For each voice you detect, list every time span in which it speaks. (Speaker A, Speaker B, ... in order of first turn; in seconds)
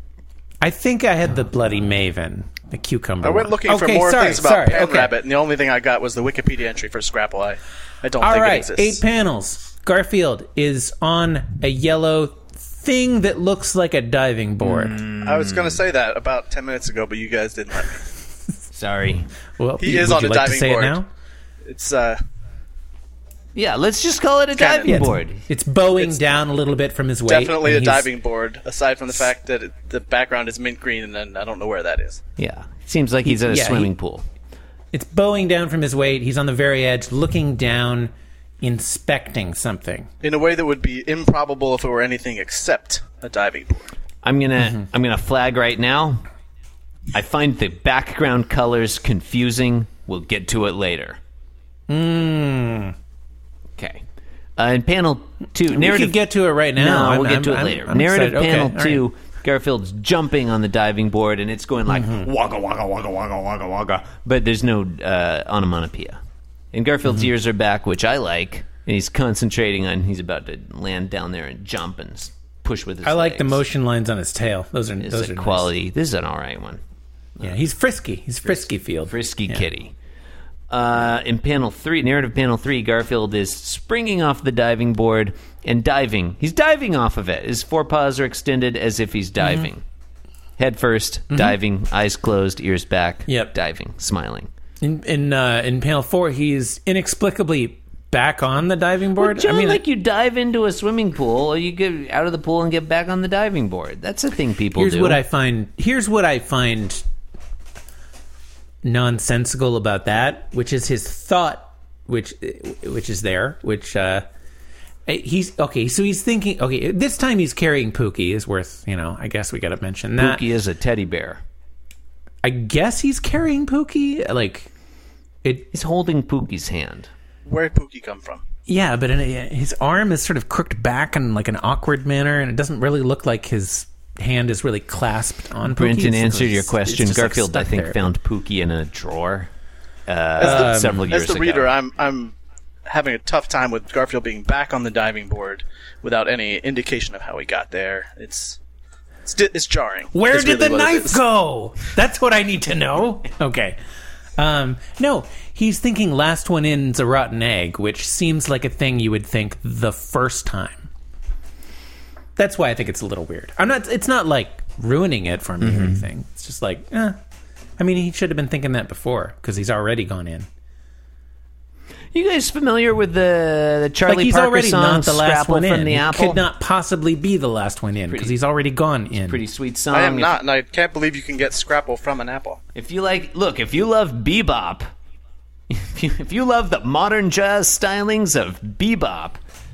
Speaker A: 0.6-5.1, 8.2-15.0, 19.6-21.1, 24.9-28.1, 33.2-33.9, 34.9-40.1, 51.9-52.9, 55.7-59.0, 61.9-62.3, 67.1-67.3, 73.0-75.7, 77.4-79.7, 89.4-89.7, 91.3-91.6, 93.3-93.5, 94.8-99.8, 104.8-107.0, 108.8-114.2, 115.1-120.4, 122.4-124.7, 125.4-125.7, 128.7-138.0, 140.4-141.0, 150.1-153.8, 154.4-160.9, 162.4-167.2, 167.8-170.5, 174.1-179.4
Speaker B: 3.2-9.0, 15.2-18.1, 19.8-21.0, 21.6-22.2, 24.6-25.0, 25.9-26.4, 27.3-32.2, 40.2-43.9, 127.5-128.4, 140.4-142.4, 142.9-148.6, 149.2-151.2, 179.9-182.6
Speaker C: 14.6-15.8, 18.7-19.3, 23.6-25.4, 32.4-34.3, 44.2-46.2, 47.1-51.2, 53.8-54.0, 54.6-56.2, 56.8-66.2, 66.7-73.6, 75.0-76.8, 78.4-79.9, 80.7-89.8, 90.6-94.5, 99.2-105.2, 120.2-121.4, 125.7-127.1, 135.6-139.5, 140.1-141.7, 165.6-166.1, 172.1-176.4, 178.1-178.4, 179.2-180.4, 182.8-184.9, 185.7-189.4